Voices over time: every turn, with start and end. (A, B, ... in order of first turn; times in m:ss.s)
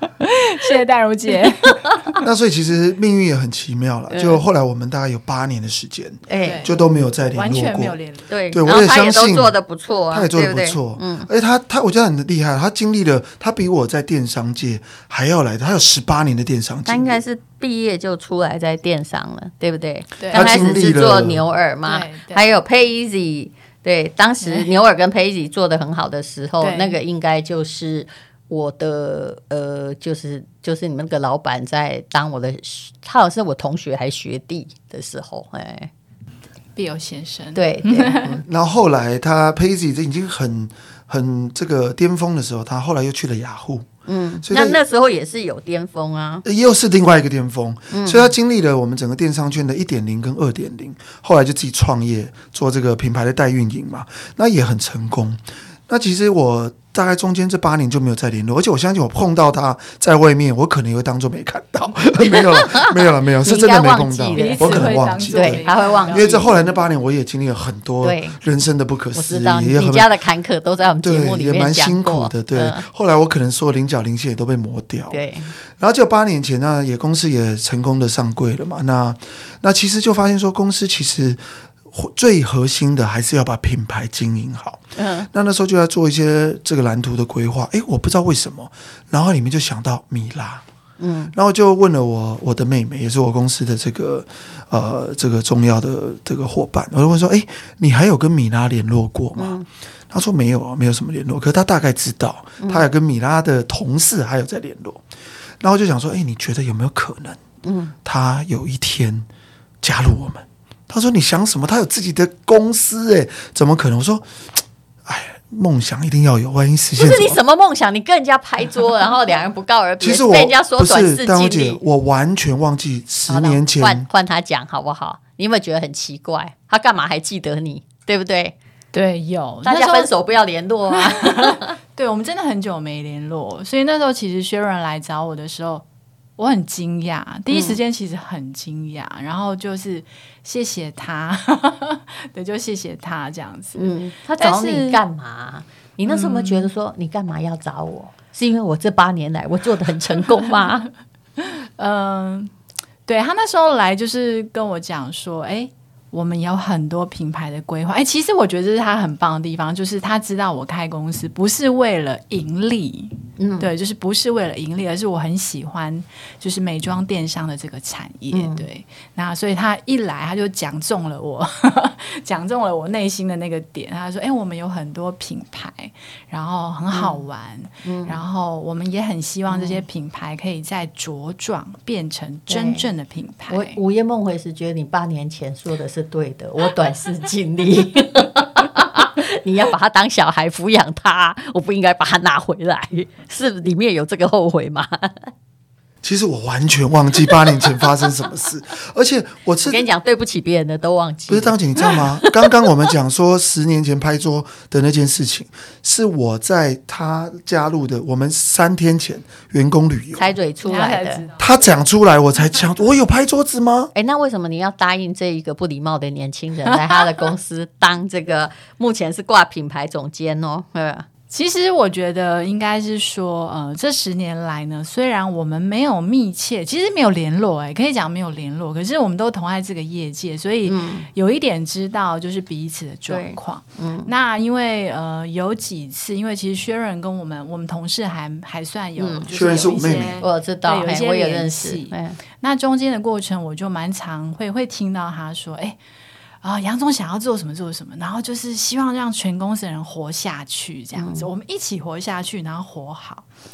0:00.2-0:02.1 A
0:02.2-0:08.0 B
0:04.1-0:04.4 C
0:06.3-0:06.7 C
0:06.4-0:08.3 A
0:08.3-0:11.3 C
0:08.5-0:09.6 B
0:10.1-0:17.2 B
0:16.8-0:35.9 C
0:20.2-0:20.6 A
0:20.3-0:21.4 B
0:21.8-0:22.5 A
0:24.4-0:24.7 A
0:26.6-0:27.0 A
0:36.8-0:38.3 A
0:37.5-0:38.2 C
0:38.2-0:43.9 B
0:44.0-0:46.4 C
0:44.4-0:44.8 B
0:46.4-1:10.1 B
0:47.9-0:48.3 C
1:02.3-1:02.9 C
1:03.4-1:06.4 C
1:04.3-1:06.7 A
1:08.0-1:08.4 C
1:09.1-1:12.8 C
1:11.0-1:15.2 B
1:15.1-1:15.5 C
1:15.8-1:30.6 B
1:25.0-1:25.3 C
1:31.0-1:31.3 C
1:31.3-1:45.0 B
1:39.4-1:39.7 C
1:45.6-1:47.4 B
1:47.6-1:47.9 C
1:48.0-1:49.3 B
1:49.8-1:57.4 B
1:57.0-2:01.8 C
2:00.0-2:04.0 B
2:03.3-2:08.5 C
2:08.9-2:10.1 A
2:09.6-2:11.7 C
2:10.9-2:15.8 A
2:16.4-2:25.0 A
2:17.5-2:17.8 C
2:23.7-2:30.9 C
2:26.0-2:26.7 A
2:31.4-2:32.5 A
2:33.1-3:03.8 A
2:43.4-2:43.7 C
2:48.3-2:48.6 C
2:56.9-2:57.2 C
2:57.8-2:58.2 C
2:59.5-2:59.8 C
3:02.5-3:02.9 C
3:03.5-3:15.3 C
3:16.0-3:19.9 B
3:19.6-3:22.5 C
3:21.3-3:30.3 B
3:30.1-3:31.2 C
3:30.6-3:31.8 A
3:31.4-3:33.9 B
3:33.9-3:41.1 C
3:36.7-3:37.0 A
3:41.3-4:05.8 A
3:50.6-3:51.1 C
3:53.1-3:54.1 C
3:59.0-3:59.3 C
3:59.3-4:00.2 B
4:00.2-4:02.2 C
4:06.4-4:13.3 A
4:11.0-4:11.3 C